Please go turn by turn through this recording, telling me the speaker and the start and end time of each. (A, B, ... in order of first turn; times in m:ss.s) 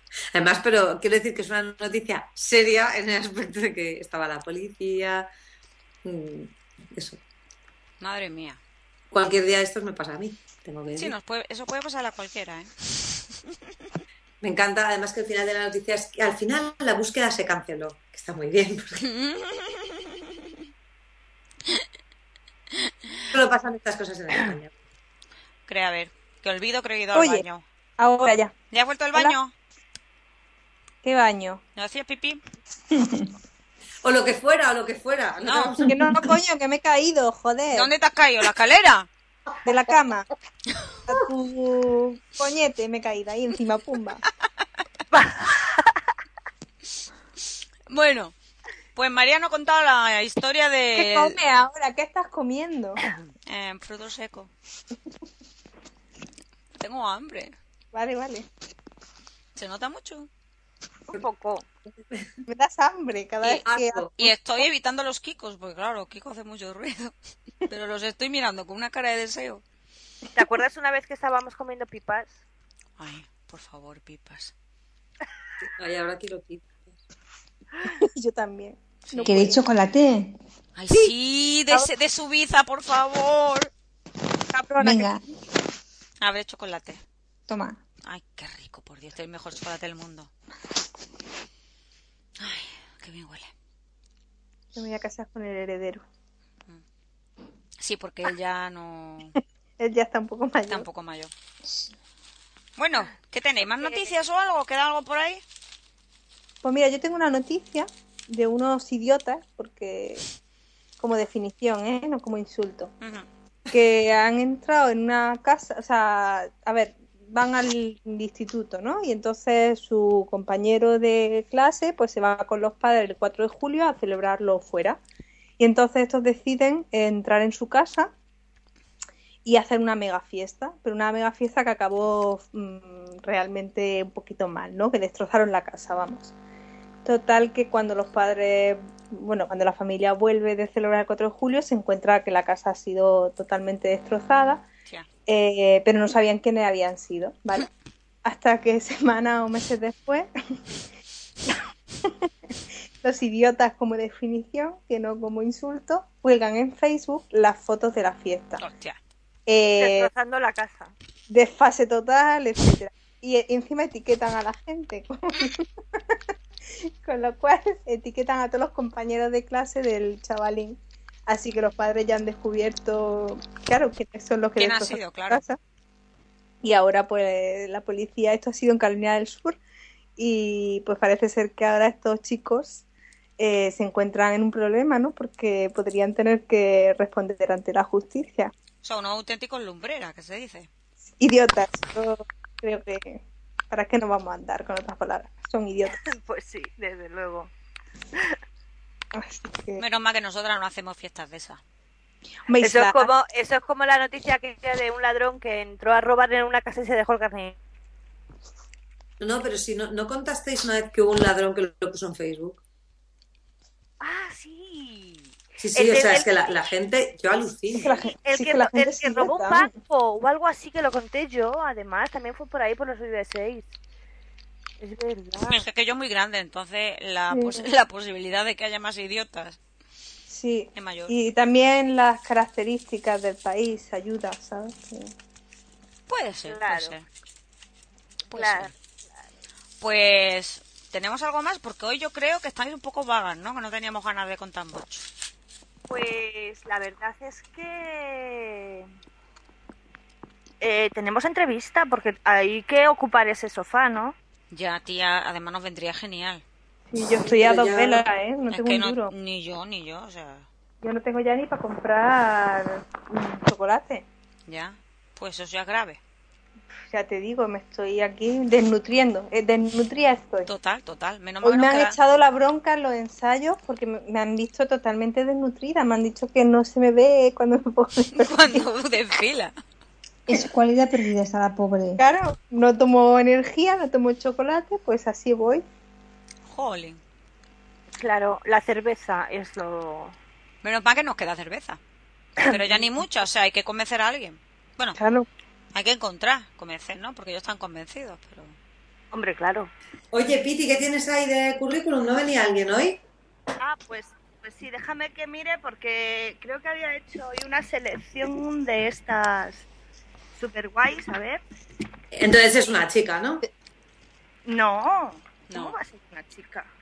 0:00.3-0:05.3 A
0:06.0-0:07.2 A
0:08.0-0:08.6 B
0:09.1-0:11.1 A
0:11.0-0:13.2 B
0:14.4-0:19.1 A
0:19.0-0:20.1 B
0:23.3-0:24.7 A
0:25.7-0:27.6 B
0:27.1-0:27.4 C
0:28.0-0:28.5 C
0:28.7-0:29.5 B
0:31.0-0:31.6 C
0:31.8-0:32.4 B
0:32.9-0:33.2 C
0:34.0-0:36.0 A
0:35.4-0:35.7 B
0:35.8-0:37.9 C
0:37.7-0:39.1 B
0:39.6-0:40.3 C
0:41.1-0:44.2 C
0:45.1-0:46.0 D
0:47.9-0:48.3 B
0:49.0-0:51.4 B
0:50.9-0:53.0 C
0:53.5-0:54.5 B
0:56.8-0:57.5 B
0:57.9-0:58.5 C
0:59.6-1:00.3 B
1:01.1-1:01.6 D
1:02.4-1:04.0 C
1:03.5-1:04.1 A
1:04.2-1:07.1 B
1:07.7-1:09.6 B
1:10.3-1:12.4 D
1:13.0-1:14.5 B
1:15.6-1:16.7 A
1:17.8-1:19.6 C
1:19.2-1:20.4 E
1:20.8-1:23.7 B
1:24.5-1:25.2 C
1:24.8-1:25.2 E
1:26.2-1:27.0 B
1:27.5-1:27.8 E
1:28.0-1:30.3 B
1:32.4-1:33.5 B
1:34.7-1:36.0 C
1:37.8-1:39.4 B
1:39.8-1:40.9 C
1:40.7-1:41.3 B
1:42.8-1:45.4 B
1:43.8-1:44.1 D
1:46.6-1:50.2 C
1:51.0-1:52.9 C
1:53.0-1:53.2 B
1:53.7-2:05.0 C
2:05.6-2:08.1 C
2:09.4-2:16.3 C
2:17.0-2:24.6 C
2:25.3-2:27.7 C
2:28.2-2:30.3 C
2:32.0-2:32.3 C
2:33.0-2:38.6 C
2:38.6-2:39.0 B
2:39.5-2:40.1 C
2:39.8-2:40.9 D
2:41.3-2:46.2 C
2:47.0-2:55.6 C
2:54.6-2:55.4 B
2:56.6-2:59.6 C
3:00.2-3:02.8 C
3:03.4-3:08.5 C
3:08.8-3:10.7 B
3:11.2-3:13.2 C
3:13.7-3:16.0 C
3:16.0-3:17.5 D
3:19.1-3:19.8 C
3:19.8-3:21.6 B
3:22.5-3:23.1 C
3:22.6-3:27.6 D
3:29.2-3:32.6 A
3:34.0-3:36.4 D
3:35.6-3:38.0 A
3:37.7-3:39.7 C
3:38.0-3:43.7 D
3:44.8-3:45.6 D
3:45.5-3:49.6 B
3:47.3-3:47.7 C
3:50.3-3:55.1 C
3:50.7-3:51.1 B
3:56.1-3:57.1 B
3:56.4-3:56.9 D
3:58.3-3:58.7 B
3:58.3-3:58.7 D
3:59.8-4:05.1 B
4:05.9-4:08.9 D
4:10.6-4:14.1 D
4:14.5-4:16.4 B
4:16.9-4:19.1 C
4:17.2-4:18.0 A
4:18.5-4:20.4 B
4:20.8-4:24.0 C
4:24.5-4:26.0 B
4:26.9-4:30.5 C
4:30.4-4:32.0 B
4:31.4-4:38.6 C
4:38.2-4:39.5 B
4:40.3-4:42.0 E
4:42.0-4:45.6 C
4:46.5-4:47.0 B
4:47.9-4:50.1 D
4:50.6-4:51.8 B
4:52.4-4:55.0 B
4:55.0-4:55.3 C
4:55.7-4:58.6 B
4:59.1-4:59.7 D
5:00.1-5:03.0 A
5:03.6-5:09.7 D
5:10.4-5:11.4 D
5:12.1-5:13.4 A
5:14.4-5:16.7 D
5:15.5-5:15.7 B